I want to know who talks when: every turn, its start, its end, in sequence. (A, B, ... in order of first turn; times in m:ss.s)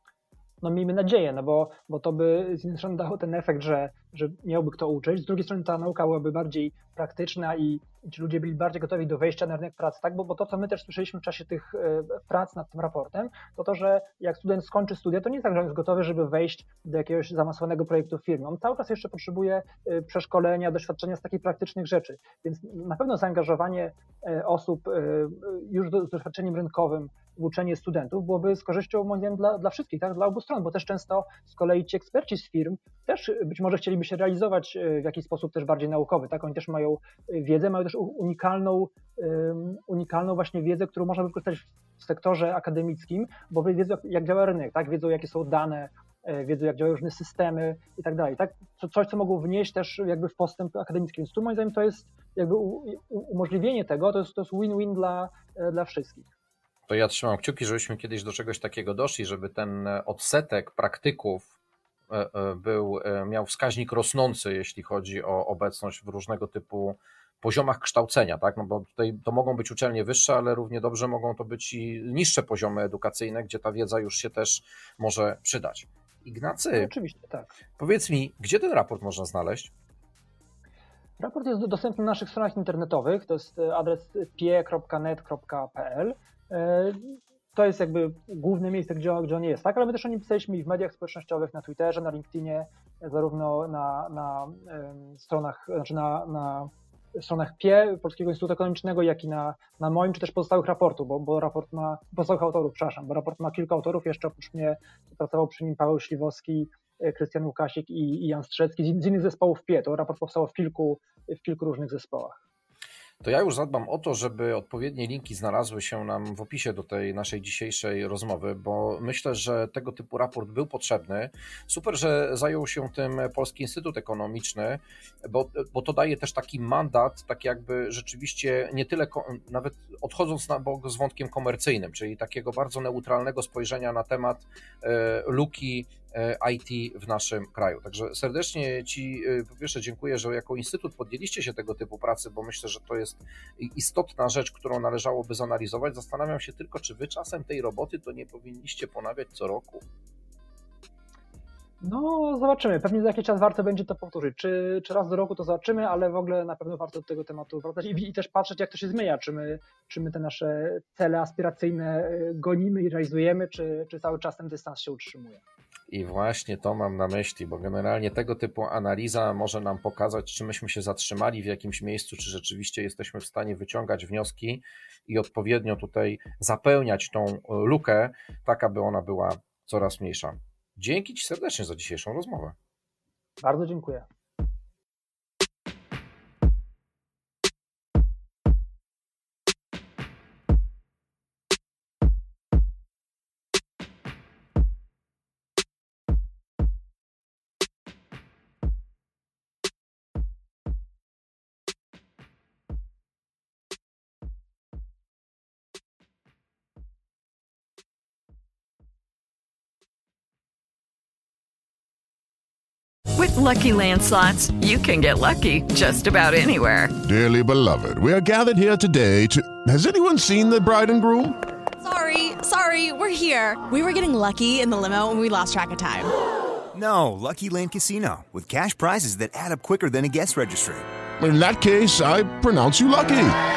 0:00.6-0:56.3 A
0:56.9-1:01.5 B
1:02.1-1:16.9 B
1:16.7-1:17.5 A
1:17.8-1:19.7 B
1:21.2-1:52.4 A
1:53.2-2:29.8 B
2:31.8-2:45.4 A
2:45.9-3:02.6 B
3:03.4-3:04.1 A
3:33.2-3:37.0 C
3:37.0-3:41.4 D
3:41.8-3:46.1 E
3:46.7-3:50.8 F
3:51.2-3:53.4 D